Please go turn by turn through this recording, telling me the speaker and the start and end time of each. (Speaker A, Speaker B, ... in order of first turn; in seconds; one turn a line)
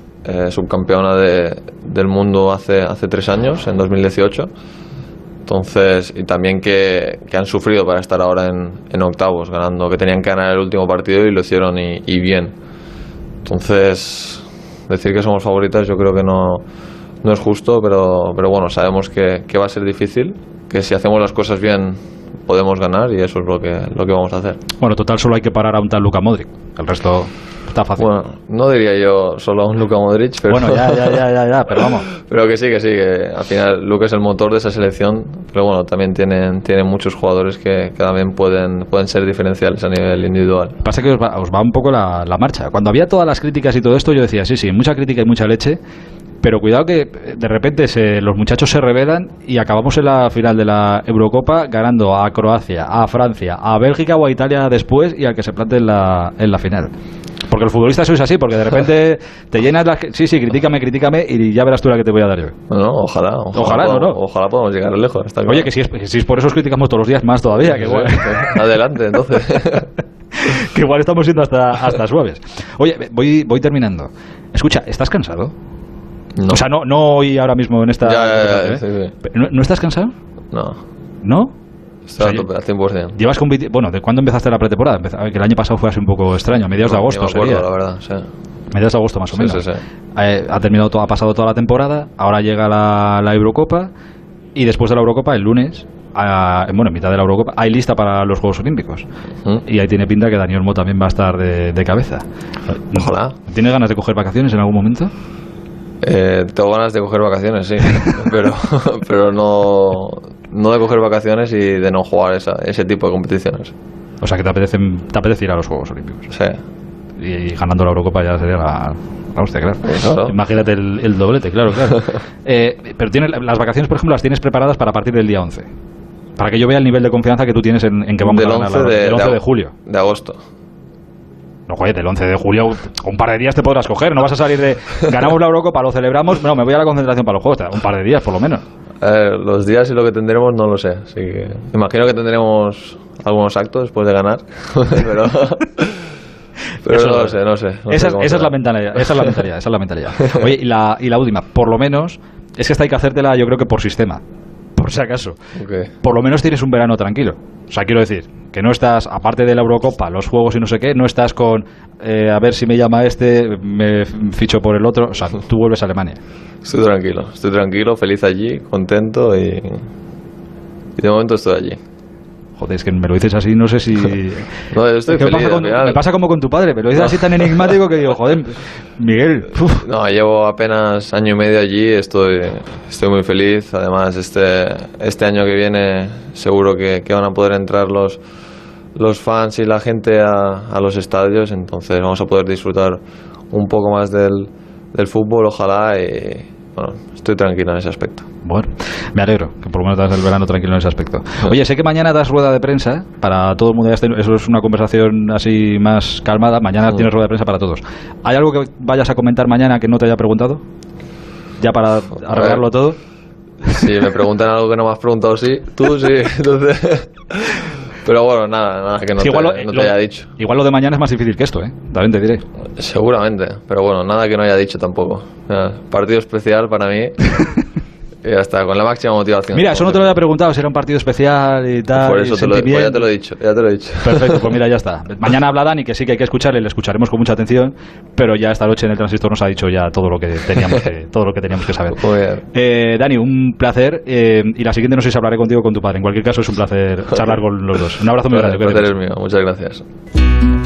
Speaker A: 0.2-4.5
Speaker A: 5.5-12.6
Speaker A: 13.4-16.6
Speaker A: 17.2-24.6
Speaker B: 24.8-28.1
Speaker A: 28.0-31.2
Speaker B: 30.5-32.1
Speaker A: 32.1-40.8
Speaker B: 40.8-45.8
Speaker B: 46.4-56.9
Speaker B: 57.5-62.5
Speaker A: 62.7-65.7
Speaker B: 63.5-64.2
Speaker B: 65.5-68.5
Speaker A: 67.7-69.9
Speaker B: 70.4-75.5
Speaker A: 76.4-76.7
Speaker B: 76.5-80.2
Speaker A: 78.0-79.1
Speaker A: 80.5-80.8
Speaker B: 81.2-81.5
Speaker A: 82.1-83.2
Speaker B: 82.2-82.5
Speaker B: 83.1-87.7
Speaker A: 86.8-88.3
Speaker B: 88.7-93.9
Speaker A: 89.3-89.8
Speaker B: 94.6-99.0
Speaker B: 99.7-105.1
Speaker A: 102.9-103.4
Speaker A: 106.0-113.7
Speaker B: 114.2-116.3
Speaker A: 116.3-116.6
Speaker B: 117.2-125.7
Speaker A: 119.8-120.3
Speaker B: 126.4-129.7
Speaker A: 128.2-130.4
Speaker B: 131.7-138.6
Speaker A: 139.0-145.9
Speaker A: 146.8-149.4
Speaker B: 146.9-147.4
Speaker B: 147.9-154.2
Speaker B: 154.8-155.4
Speaker A: 155.6-155.9
Speaker B: 156.0-166.2
Speaker A: 166.6-169.9
Speaker A: 171.0-171.8
Speaker B: 172.6-174.5
Speaker A: 174.7-176.0
Speaker B: 175.1-179.8
Speaker A: 177.1-177.7
Speaker A: 179.8-188.2
Speaker A: 189.0-198.3
Speaker B: 198.4-210.6
Speaker B: 211.6-213.0
Speaker A: 212.3-212.6
Speaker A: 213.7-220.3
Speaker B: 219.2-222.4
Speaker A: 222.8-227.2
Speaker A: 228.2-230.2
Speaker B: 229.5-233.1
Speaker A: 232.0-234.4
Speaker B: 234.0-242.0
Speaker A: 241.9-242.4
Speaker B: 242.5-248.9
Speaker A: 248.3-249.9